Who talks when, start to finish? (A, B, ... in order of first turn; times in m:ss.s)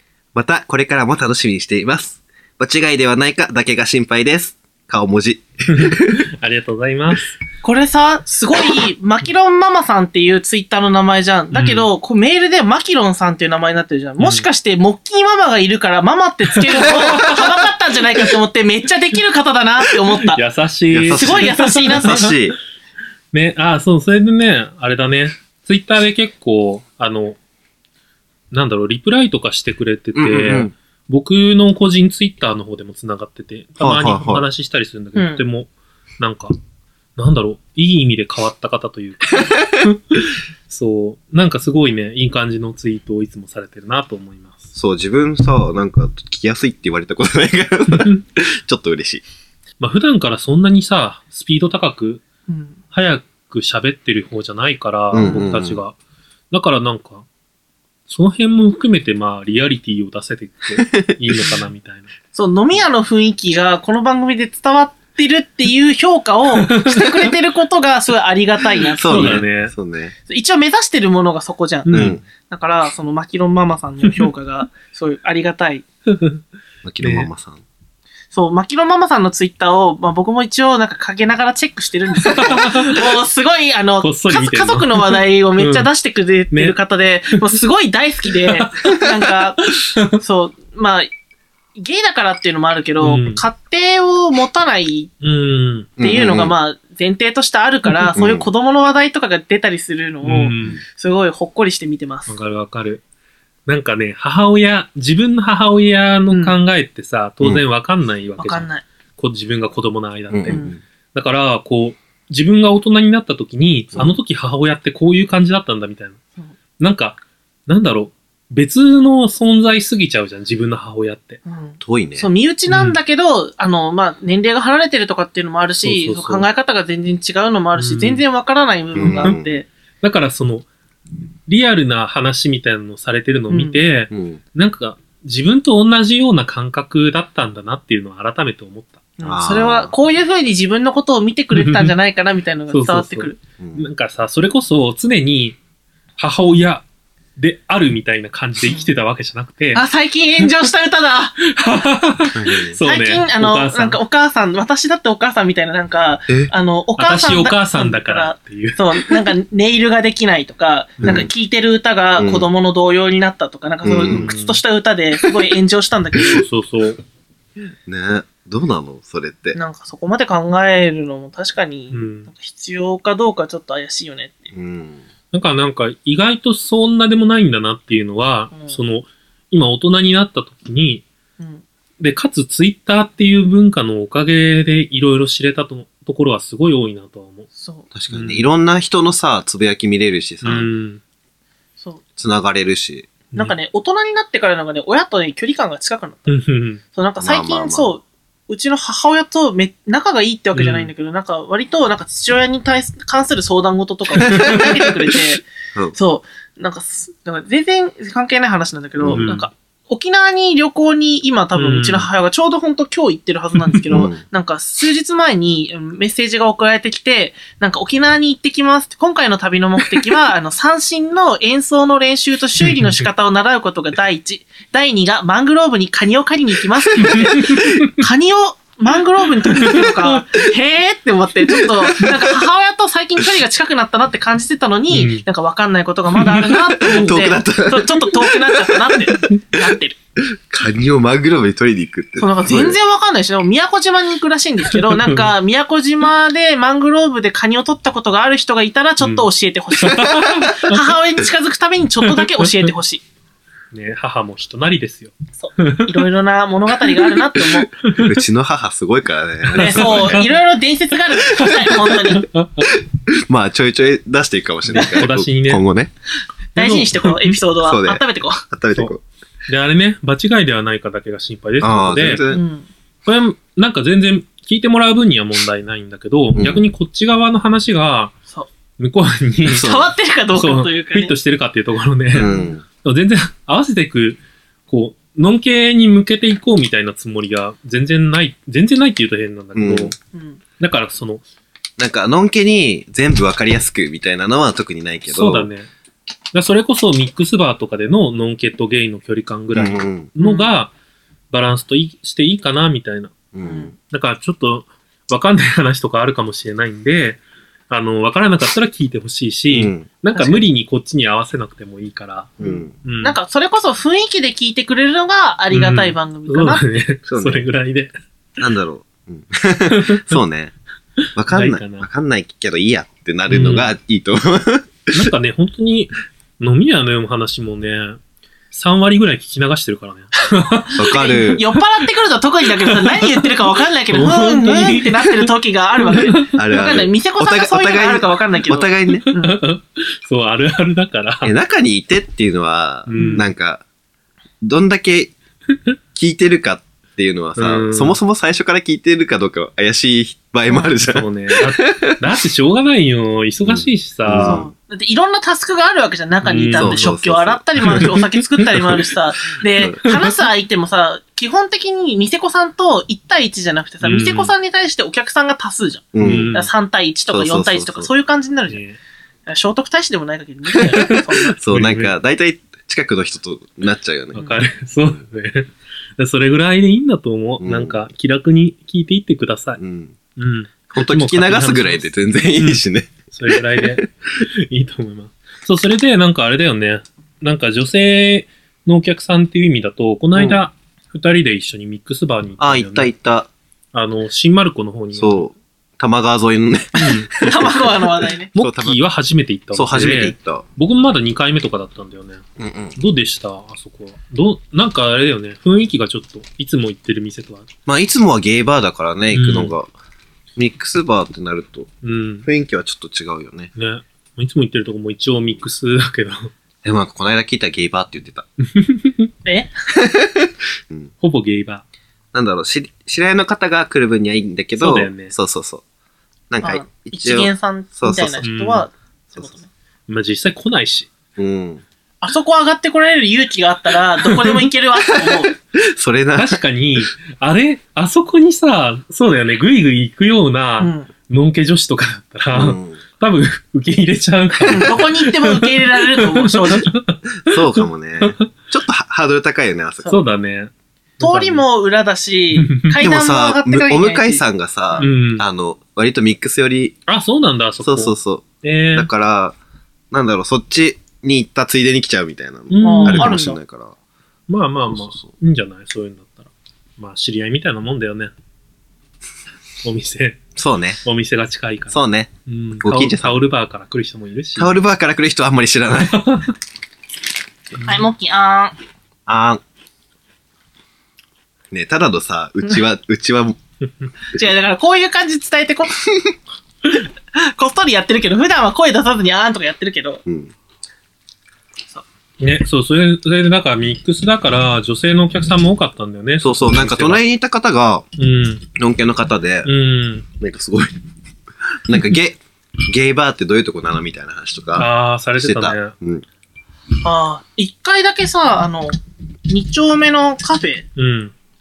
0:00.3-0:06.2 A
0:05.7-0:07.4 B
0:07.6-0:20.4 C
0:11.5-0:11.9 B
0:14.2-0:14.5 B
0:16.8-0:17.4 B
0:20.2-0:22.4 B
0:20.9-0:22.6 A
0:21.1-0:22.3 C
0:23.3-0:27.4 B
0:28.5-0:36.5 B
0:30.1-0:30.7 A
0:33.8-0:34.4 A
0:35.2-0:35.4 C
0:37.2-0:44.7 B
0:39.3-0:39.6 A
0:44.7-0:49.2 A
0:47.9-0:48.2 B
0:49.8-0:52.2 B
0:52.5-0:52.8 C
0:52.9-0:55.9 B
0:55.1-0:55.8 A
0:56.5-0:57.2 B
0:58.1-1:02.1 B
1:00.8-1:01.6 A
1:02.3-1:09.4 C
1:06.5-1:07.3 B
1:09.0-1:10.1 A
1:09.0-1:09.7 B
1:10.3-1:15.8 C
1:11.8-1:12.2 B
1:11.9-1:12.2 A
1:16.1-1:16.4 B
1:16.8-1:17.6 A
1:17.0-1:17.3 B
1:18.3-1:31.1 C
1:22.2-1:23.1 B
1:24.0-1:25.9 B
1:28.5-1:30.2 B
1:31.8-1:35.1 C
1:33.0-1:33.4 B
1:35.2-1:35.9 B
1:36.0-1:36.5 A
1:36.0-1:42.3 C
1:38.2-1:38.5 A
1:40.2-1:40.8 B
1:42.3-1:43.0 B
1:43.7-1:48.7 B
1:46.3-1:46.5 C
1:48.4-1:48.8 C
1:49.2-1:56.2 B
1:50.3-1:50.8 A
1:50.5-1:50.8 C
1:56.8-2:01.4 B
2:01.4-2:09.7 C
2:01.8-2:02.3 A
2:02.7-2:03.0 B
2:05.8-2:06.4 B
2:07.8-2:08.2 B
2:08.9-2:09.5 A
2:09.0-2:09.4 B
2:10.0-2:10.7 B
2:11.5-2:19.0 B
2:13.5-2:13.8 C
2:14.1-2:14.4 A
2:19.2-2:23.4 C
2:19.2-2:19.9 A
2:21.5-2:21.9 B
2:22.7-2:25.6 B
2:23.6-2:23.8 A
2:26.2-2:26.8 B
2:27.4-2:29.8 B
2:29.7-2:31.4 C
2:31.4-2:34.0 B
2:32.3-2:32.7 A
2:32.8-2:46.4 C
2:37.0-2:39.3 B
2:41.0-2:41.3 A
2:42.2-2:42.5 A
2:43.8-2:44.3 A
2:44.1-2:44.6 B
2:46.2-2:47.0 B
2:47.8-2:49.6 A
2:49.5-2:54.5 C
2:51.9-2:52.3 B
2:54.5-2:55.0 A
2:55.3-3:01.0 B
2:58.5-2:58.8 C
3:01.4-3:01.6 C
3:02.0-3:07.5 B
3:07.5-3:07.9 C
3:07.9-3:10.7 A
3:08.1-3:08.4 B
3:10.4-3:11.0 B
3:12.2-3:13.1 A
3:13.3-3:16.3 C
3:16.3-3:16.8 B
3:16.9-4:00.0 C
3:17.2-3:17.9 A
3:20.5-3:20.9 B
3:24.2-3:24.9 B
3:24.3-3:24.7 A
3:29.0-3:29.2 A
3:29.1-3:29.5 B
3:31.6-3:32.1 B
3:33.9-3:34.2 A
3:42.6-3:43.0 B
3:47.0-3:47.9 B
3:49.6-3:50.2 B
3:54.9-3:55.2 B
3:56.2-3:57.1 B
3:56.9-3:58.5 A
4:00.5-4:02.8 A
4:02.2-4:13.0 C
4:04.7-4:05.3 B
4:09.0-4:09.3 B
4:09.8-4:10.8 B
4:12.0-4:12.7 B
4:13.7-4:16.0 B
4:15.4-4:17.7 C
4:17.8-4:18.2 B
4:17.9-4:20.2 A
4:19.5-4:20.3 B
4:19.5-4:22.3 C
4:21.4-4:22.7 B
4:23.1-4:25.9 A
4:24.7-4:25.6 B
4:24.7-4:25.0 C
4:26.5-4:28.4 C
4:26.6-4:27.4 B
4:27.6-4:29.0 A
4:29.5-4:32.2 B
4:31.6-4:32.4 A
4:32.3-4:32.7 C
4:33.0-4:38.1 B
4:36.3-4:36.6 A
4:38.8-4:39.8 B
4:39.5-4:39.9 A
4:39.5-4:41.1 C
4:40.4-4:49.9 B
4:42.1-4:42.6 A
4:42.2-4:42.5 C
4:49.5-4:49.9 A
4:50.1-4:50.4 C
4:50.6-4:51.2 B
4:51.8-4:55.5 A
4:55.1-4:55.7 B
4:56.3-5:00.7 B
4:59.5-5:00.1 A
5:00.2-5:00.5 C
5:01.3-5:03.1 B
5:03.3-5:03.7 A
5:03.4-5:03.7 C
5:03.8-5:13.2 B
5:09.5-5:09.9 A
5:10.1-5:10.4 C
5:12.4-5:12.7 A
5:12.4-5:16.6 C
5:15.5-5:17.9 B
5:17.1-5:17.4 A
5:18.4-5:20.5 A
5:19.7-5:20.2 B
5:21.0-5:21.9 B
5:21.1-5:25.1 A
5:23.3-5:23.7 B
5:24.9-5:28.0 B
5:28.5-5:30.7 B
5:30.3-5:39.4 C
5:30.8-5:31.4 A
5:32.6-5:35.3 B
5:35.8-5:36.4 B
5:36.3-5:39.0 A
5:39.0-5:41.3 B
5:41.2-5:43.6 A
5:42.9-5:43.3 B
5:42.9-5:43.2 C
5:44.4-5:45.1 A
5:45.9-5:52.0 A
5:47.4-5:48.0 B
5:50.6-5:54.4 B
5:53.4-5:54.4 A
5:54.2-6:08.6 C
5:56.2-5:56.9 B
5:56.5-5:57.9 A
5:57.6-5:58.6 B
5:59.5-5:59.8 A
5:59.8-6:00.1 B
6:03.8-6:04.3 B
6:05.9-6:06.3 A
6:06.0-6:06.5 B
6:07.1-6:07.9 A
6:08.5-6:08.8 B
6:09.3-6:11.4 C
6:10.6-6:11.9 B
6:11.4-6:14.2 A
6:14.1-6:14.4 C
6:14.2-6:19.6 B
6:17.4-6:17.8 A
6:19.6-6:19.9 A
6:20.2-6:32.9 B
6:20.7-6:23.8 A
6:30.1-6:30.4 A
6:32.4-6:33.3 A
6:33.7-6:35.3 B
6:34.9-6:37.7 A
6:36.8-6:37.7 B
6:36.8-6:38.3 C
6:38.3-6:38.8 A
6:38.3-6:42.2 B
6:39.5-6:40.4 A
6:42.4-6:42.7 A
6:42.7-6:47.5 B
6:47.7-6:49.7 A
6:49.1-6:49.5 B
6:50.4-6:51.7 A
6:51.8-6:52.3 B
6:52.2-6:53.5 A
6:53.5-6:56.3 B
6:56.6-6:58.3 A
6:58.4-6:59.1 B
6:59.2-6:59.5 C
6:59.8-7:00.9 A
7:01.0-7:01.6 B
7:02.1-7:05.6 A
7:04.6-7:05.1 B
7:06.3-7:08.2 A
7:06.4-7:09.5 C
7:08.2-7:08.7 B
7:09.9-7:10.9 B
7:11.2-7:11.6 A
7:12.0-7:15.3 C
7:14.0-7:14.5 B
7:15.1-7:16.4 A
7:16.2-7:28.2 B
7:20.6-7:20.9 C
7:22.3-7:22.8 A
7:24.5-7:26.7 C
7:27.2-7:30.0 A
7:29.9-7:31.4 B
7:31.0-7:34.9 C
7:32.4-7:32.8 B
7:32.8-7:36.8 A
7:34.8-7:35.2 B
7:36.9-7:38.9 B
7:37.6-7:39.4 A
7:39.9-7:43.7 A
7:42.5-7:43.2 B
7:42.6-7:43.4 C
7:44.3-7:48.1 B
7:44.7-7:45.1 A
7:49.6-7:50.2 B
7:50.4-7:50.8 A
7:50.8-7:54.5 B
7:51.7-7:53.2 A
7:54.4-7:56.0 A
7:55.9-7:56.3 B
7:57.6-7:58.5 C
7:57.6-7:57.8 B
7:59.0-7:59.4 A
8:01.5-8:03.4 A
8:04.1-8:05.8 C
8:07.2-8:10.0 C
8:10.0-8:10.3 A
8:12.2-8:17.0 B
8:16.2-8:17.8 A
8:18.0-8:18.4 B
8:18.6-8:19.5 A
8:19.4-8:20.0 B
8:20.2-8:20.8 A
8:21.7-8:26.0 A
8:24.5-8:25.7 B
8:26.8-8:28.7 C
8:29.3-8:30.7 C
8:30.8-8:31.1 B